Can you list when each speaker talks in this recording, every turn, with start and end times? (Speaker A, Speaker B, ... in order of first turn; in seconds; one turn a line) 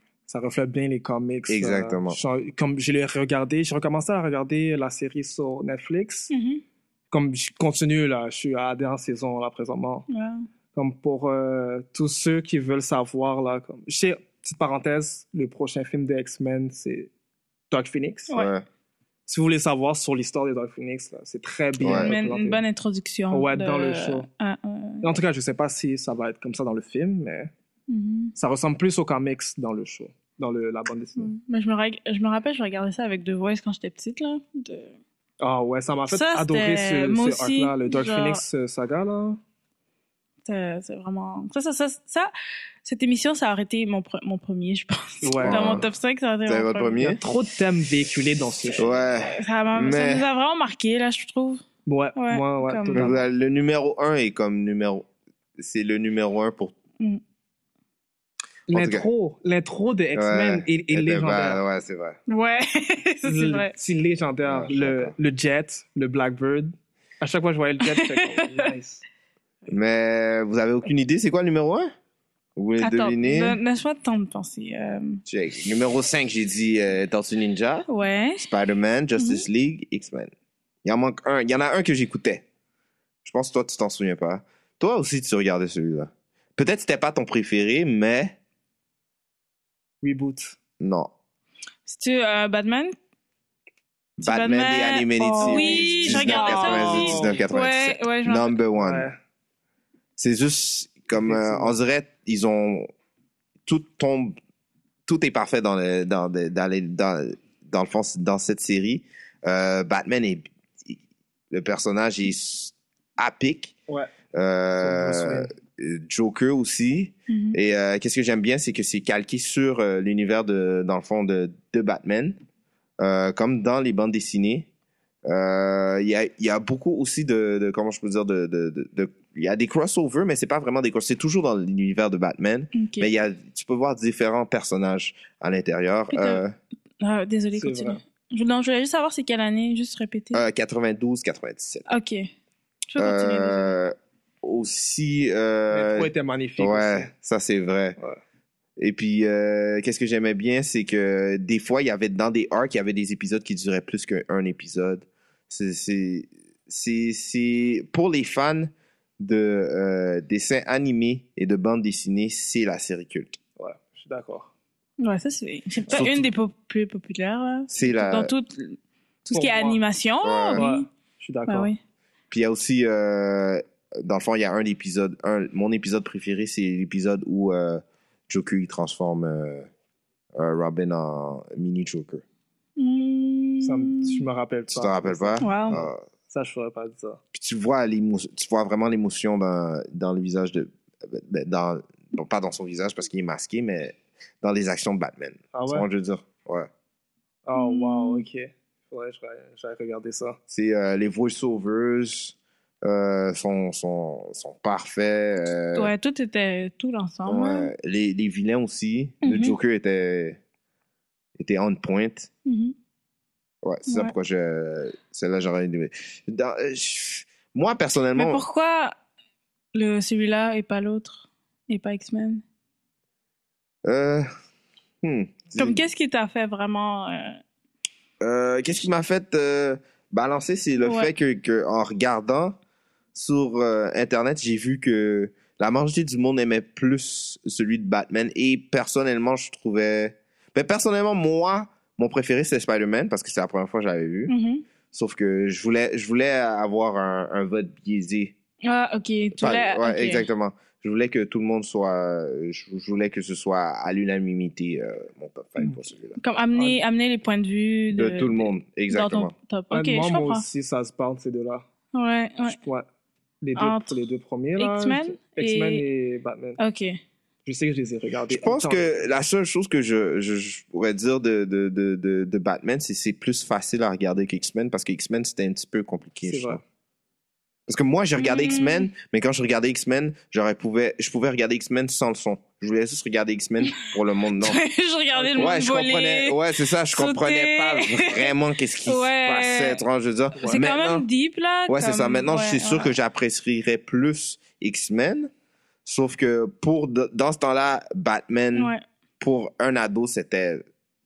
Speaker A: 0.3-6.3
Speaker B: 1.5-2.2
Speaker C: 6.3-6.6
Speaker A: 7.1-10.1
Speaker C: 10.1-10.4
Speaker A: 10.7-17.1
Speaker A: 17.7-18.4
Speaker B: 18.3-18.6
Speaker A: 19.3-22.6
Speaker B: 21.8-22.1
Speaker C: 21.9-25.1
Speaker A: 23.3-24.2
Speaker A: 25.0-27.5
Speaker C: 27.9-28.3
Speaker A: 28.4-31.3
Speaker C: 31.2-35.0
Speaker A: 35.4-39.4
Speaker C: 36.1-38.4
Speaker C: 40.5-42.3
Speaker C: 42.8-47.0
Speaker A: 45.2-45.8
Speaker B: 45.4-45.9
Speaker B: 46.5-47.2
Speaker A: 47.0-48.9
Speaker B: 48.8-50.3
Speaker C: 49.2-51.6
Speaker A: 51.9-53.2
Speaker C: 52.1-53.1
Speaker B: 52.9-56.7
Speaker A: 58.7-61.6
Speaker B: 58.7-59.1
Speaker B: 60.1-62.2
Speaker C: 62.3-63.7
Speaker A: 63.2-69.0
Speaker B: 64.5-65.1
Speaker C: 67.8-68.7
Speaker B: 69.7-71.9
Speaker B: 72.5-73.6
Speaker C: 72.8-75.2
Speaker B: 75.2-80.3
Speaker C: 77.9-78.4
Speaker C: 79.2-79.4
Speaker B: 80.8-82.4
Speaker B: 83.2-88.4
Speaker A: 90.0-90.6
Speaker B: 90.8-91.1
Speaker C: 91.8-92.9
Speaker B: 94.2-99.1
Speaker C: 94.2-98.5
Speaker A: 95.4-97.4
Speaker A: 98.8-99.2
Speaker B: 100.2-102.9
Speaker A: 101.1-101.7
Speaker B: 103.7-104.3
Speaker B: 105.0-111.0
Speaker B: 111.5-113.8
Speaker B: 114.3-122.4
Speaker A: 114.8-115.5
Speaker C: 117.3-117.6
Speaker B: 123.0-124.7
Speaker B: 125.2-136.5
Speaker C: 132.7-133.1
Speaker C: 136.1-136.4
Speaker C: 137.0-140.4
Speaker A: 137.5-138.0
Speaker B: 140.3-141.8
Speaker C: 141.9-142.3
Speaker C: 142.9-143.8
Speaker B: 143.0-148.0
Speaker A: 145.7-147.1
Speaker B: 148.8-163.4
Speaker A: 163.6-164.5
Speaker C: 165.0-170.9
Speaker A: 165.9-166.2
Speaker B: 167.7-168.3
Speaker A: 169.3-169.8
Speaker B: 170.2-170.6
Speaker A: 170.5-171.7
Speaker C: 171.5-171.8
Speaker B: 172.3-179.7
Speaker B: 180.3-182.2
Speaker C: 182.8-184.2
Speaker A: 183.6-187.2
Speaker B: 184.7-186.0
Speaker C: 185.4-185.8
Speaker B: 187.3-196.7
Speaker A: 195.5-195.9
Speaker A: 197.4-200.4
Speaker C: 197.5-198.2
Speaker B: 200.5-205.9
Speaker C: 205.7-207.7
Speaker B: 207.3-210.4
Speaker C: 209.2-209.6
Speaker B: 211.4-212.3
Speaker C: 212.4-212.7
Speaker B: 213.6-218.4
Speaker C: 213.9-214.1
Speaker C: 218.2-218.9
Speaker C: 219.7-222.4
Speaker B: 223.8-224.2
Speaker B: 225.0-225.8
Speaker C: 225.5-227.4
Speaker B: 228.2-232.6
Speaker C: 230.8-231.1
Speaker B: 233.1-244.3
Speaker C: 244.3-244.6
Speaker B: 244.9-248.3
Speaker C: 248.6-250.3
Speaker B: 249.4-256.2
Speaker C: 256.2-260.4
Speaker B: 257.9-259.3
Speaker A: 259.7-261.6
Speaker C: 261.9-262.6
Speaker A: 262.5-262.9
Speaker A: 263.4-266.6
Speaker C: 263.6-264.0
Speaker C: 264.6-265.9
Speaker C: 266.6-267.0
Speaker A: 267.4-269.0
Speaker B: 268.3-276.6
Speaker A: 276.2-276.6
Speaker B: 277.7-284.6
Speaker C: 278.2-278.9
Speaker C: 284.4-288.3
Speaker A: 285.2-285.5
Speaker B: 285.4-291.0
Speaker C: 288.8-289.8
Speaker A: 290.4-290.6
Speaker C: 290.4-292.9
Speaker B: 291.7-295.3
Speaker B: 295.8-300.6
Speaker C: 298.5-298.8